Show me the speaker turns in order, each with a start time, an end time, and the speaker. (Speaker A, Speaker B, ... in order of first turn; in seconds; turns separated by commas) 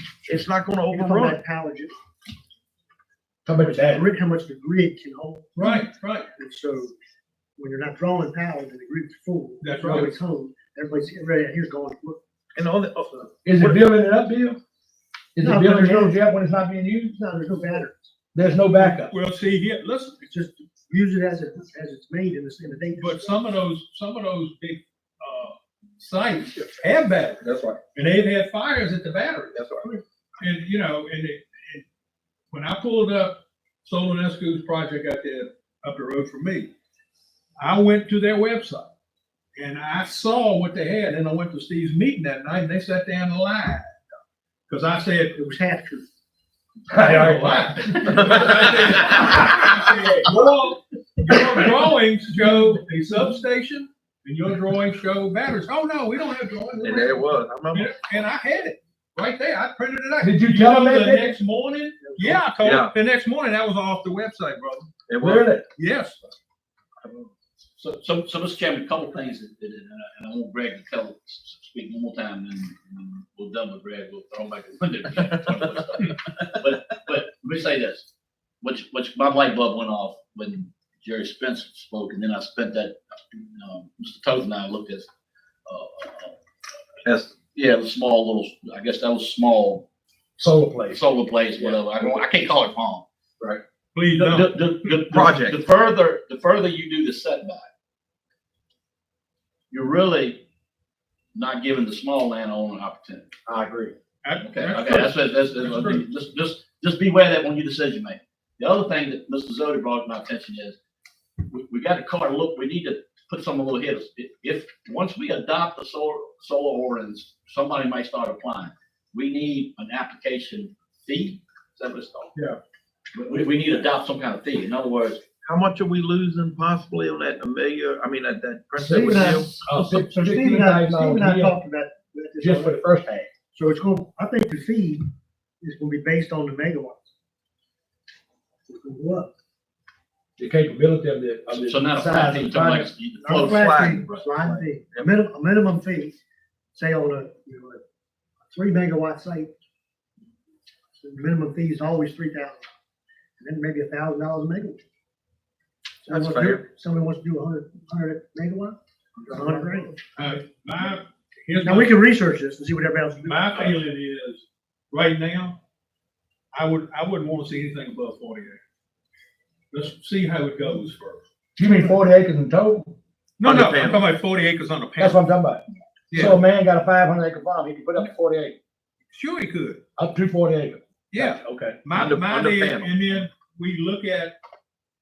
Speaker A: 0.2-1.4, Speaker B: 0.9-1.9, Speaker C: 3.5-4.1, Speaker B: 3.6-6.9, Speaker D: 5.5-6.3, Speaker B: 7.6-12.2, Speaker D: 9.6-10.1, Speaker A: 12.5-13.8, Speaker C: 13.4-14.6, Speaker C: 15.3-17.1, Speaker B: 15.4-16.2, Speaker B: 17.1-18.1, Speaker C: 18.3-19.1, Speaker D: 18.8-20.2, Speaker B: 20.2-23.4, Speaker D: 22.9-29.6, Speaker A: 27.4-27.8, Speaker A: 29.5-30.0, Speaker D: 30.4-31.8, Speaker D: 32.5-36.7, Speaker D: 37.6-38.9, Speaker D: 39.5-44.0, Speaker D: 44.7-45.5, Speaker B: 45.4-46.1, Speaker C: 46.9-48.4, Speaker D: 46.9-64.9, Speaker A: 48.3-48.7, Speaker C: 49.2-49.6, Speaker C: 51.3-51.6, Speaker A: 56.8-57.9, Speaker C: 60.2-61.4, Speaker A: 62.6-62.9, Speaker A: 65.1-65.5, Speaker C: 65.2-65.7, Speaker D: 65.8-66.3, Speaker E: 67.8-78.1, Speaker E: 78.6-85.1, Speaker E: 85.7-86.4, Speaker A: 87.0-87.3, Speaker E: 87.3-89.8, Speaker C: 90.4-91.0, Speaker E: 90.9-93.0, Speaker D: 93.9-94.5, Speaker E: 94.2-97.7, Speaker A: 95.1-95.6, Speaker E: 99.7-100.4, Speaker E: 101.3-103.3, Speaker C: 103.5-103.9, Speaker D: 104.2-106.0, Speaker E: 104.4-110.8, Speaker E: 111.5-122.3, Speaker E: 123.1-125.2, Speaker A: 125.4-129.6, Speaker B: 128.8-132.8, Speaker C: 128.8-131.6, Speaker C: 132.4-133.3, Speaker B: 133.5-135.1, Speaker B: 135.6-137.1, Speaker B: 138.7-139.3, Speaker C: 140.4-142.9, Speaker E: 141.7-144.3, Speaker B: 143.2-146.2, Speaker A: 143.3-145.1, Speaker B: 146.7-147.8, Speaker B: 148.5-149.5, Speaker B: 151.0-152.6, Speaker B: 153.4-154.8, Speaker A: 156.0-156.6, Speaker B: 156.0-158.8, Speaker B: 159.3-160.0, Speaker D: 160.1-162.0, Speaker B: 161.6-163.8, Speaker D: 163.2-165.6, Speaker D: 166.5-168.6, Speaker D: 169.7-171.2, Speaker C: 171.6-172.9, Speaker D: 173.4-175.2, Speaker A: 173.4-174.0, Speaker C: 175.0-178.6, Speaker D: 176.1-176.4, Speaker D: 179.1-179.8, Speaker C: 180.0-181.8, Speaker D: 181.1-184.3, Speaker A: 181.9-182.9